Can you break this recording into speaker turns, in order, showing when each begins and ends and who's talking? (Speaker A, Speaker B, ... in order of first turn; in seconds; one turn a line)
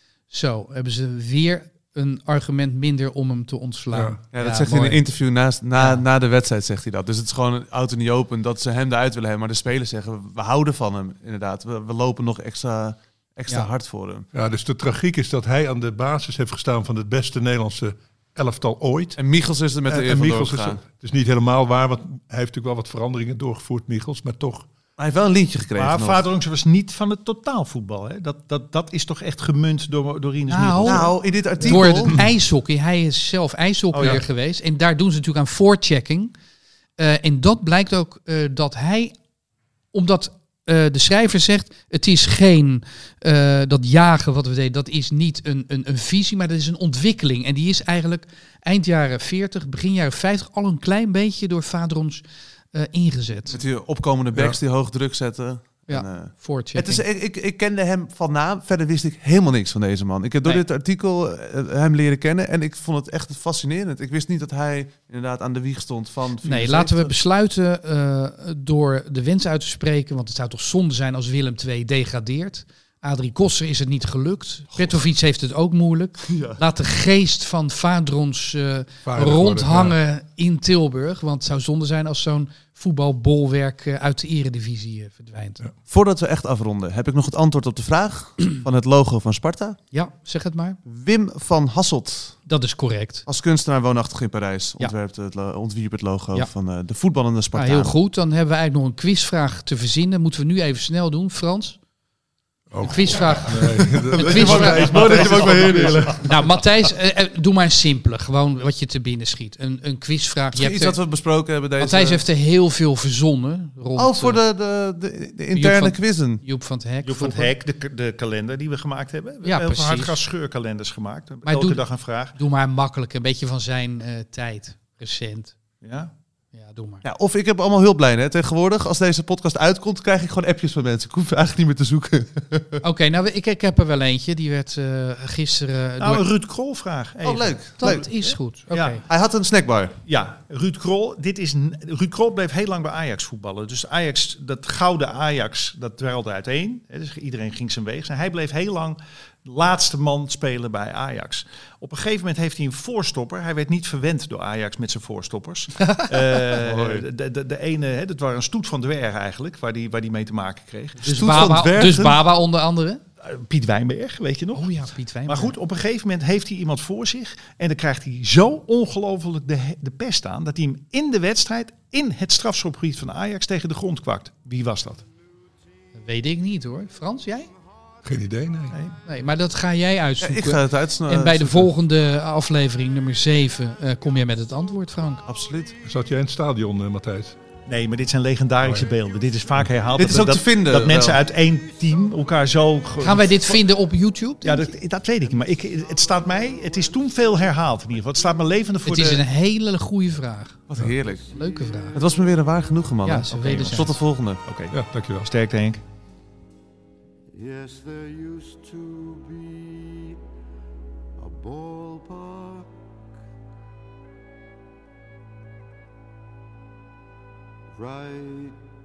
Speaker A: 0.3-5.0
Speaker B: 3.9-4.2
Speaker C: 4.3-14.3
Speaker A: 5.7-6.0
Speaker B: 14.3-19.2
Speaker C: 19.2-20.8
Speaker B: 19.9-24.7
Speaker C: 25.0-26.2
Speaker D: 25.8-31.1
Speaker A: 30.5-36.3
Speaker C: 30.8-32.1
Speaker B: 31.6-32.2
Speaker D: 33.9-34.2
Speaker A: 37.0-39.1
Speaker A: 39.9-53.6
Speaker C: 53.5-67.1
Speaker B: 54.3-54.6
Speaker A: 55.9-57.0
Speaker A: 66.4-85.6
Speaker C: 76.3-76.6
Speaker B: 79.0-80.0
Speaker C: 85.9-89.8
Speaker A: 89.9-90.8
Speaker C: 90.8-92.5
Speaker A: 92.5-93.2
Speaker C: 93.2-97.9
Speaker A: 97.5-101.8
Speaker B: 102.7-106.7
Speaker A: 102.8-105.1
Speaker C: 104.0-106.2
Speaker D: 104.5-106.2
Speaker A: 106.2-111.0
Speaker C: 110.5-112.2
Speaker A: 111.8-114.4
Speaker C: 114.0-116.4
Speaker A: 115.5-117.5
Speaker D: 117.0-122.3
Speaker A: 119.4-120.2
Speaker A: 121.4-125.6
Speaker D: 125.8-126.1
Speaker A: 126.5-127.0
Speaker C: 127.0-132.8
Speaker A: 132.8-136.2
Speaker D: 136.0-139.0
Speaker C: 137.2-138.4
Speaker A: 137.8-139.0
Speaker C: 139.1-140.0
Speaker D: 140.0-161.4
Speaker C: 156.6-157.0
Speaker C: 161.0-162.2
Speaker A: 161.0-163.0
Speaker D: 163.2-175.1
Speaker A: 164.5-165.5
Speaker A: 175.9-177.5
Speaker B: 178.0-178.8
Speaker A: 179.0-185.2
Speaker C: 180.2-181.7
Speaker C: 185.2-185.8
Speaker B: 185.8-187.3
Speaker D: 187.7-193.6
Speaker B: 188.6-188.9
Speaker C: 190.0-191.2
Speaker A: 193.0-194.7
Speaker D: 194.4-199.2
Speaker A: 198.8-200.6
Speaker C: 200.7-201.3
Speaker E: 201.3-202.4
Speaker A: 201.3-202.0
Speaker C: 201.9-204.4
Speaker A: 203.0-204.0
Speaker D: 204.4-205.8
Speaker B: 204.7-205.3
Speaker E: 207.3-210.1
Speaker E: 211.2-212.7
Speaker E: 217.7-218.6